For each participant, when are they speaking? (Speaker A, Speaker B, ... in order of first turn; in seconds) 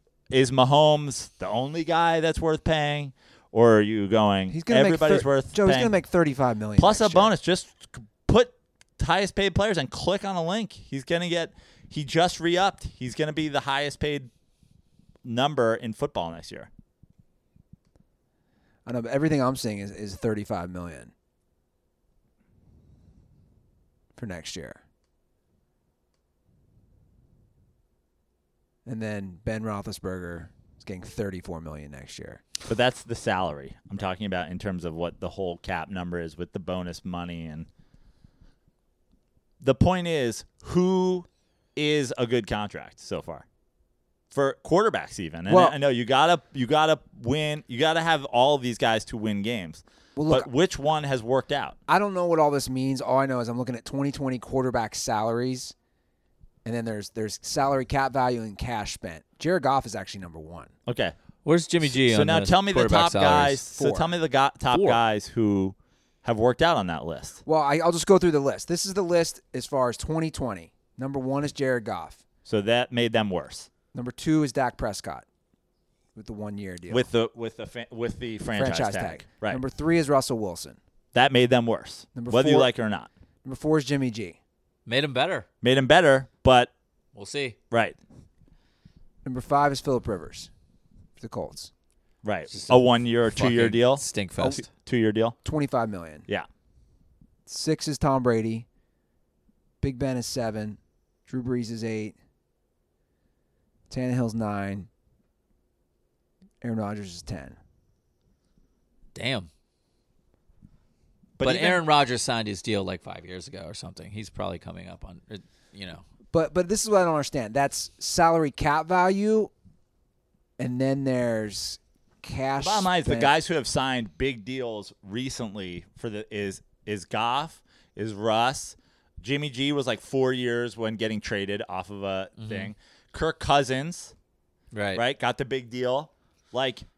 Speaker A: 0.3-5.9, 6.8-14.3, 15.2-16.7, 32.6-37.7, 39.6-43.4, 44.3-51.8, 60.9-61.1, 61.8-67.4, 72.5-73.7, 76.9-79.6, 81.1-83.1, 85.6-86.7, 87.7-88.0, 92.2-95.3, 111.4-111.8, 122.6-134.1, 134.9-136.8
Speaker B: 4.5-7.3, 18.9-21.1, 24.1-24.8, 28.9-32.4, 45.5-45.8, 50.1-50.5, 51.9-55.7, 56.6-60.7, 63.7-64.1, 67.5-72.2, 73.9-75.2, 76.1-77.1, 78.5-80.8, 82.2-82.7, 83.4-84.4, 89.2-90.5, 91.2-91.7, 95.4-96.2, 97.5-98.7, 99.8-102.1, 103.9-104.9, 106.6-107.6, 116.3-119.5, 120.6-123.3
Speaker C: 61.4-63.6, 64.7-65.0, 84.8-85.5, 87.1-87.6, 92.5-94.7, 109.1-109.5, 111.4-116.0, 132.4-132.7, 134.7-135.0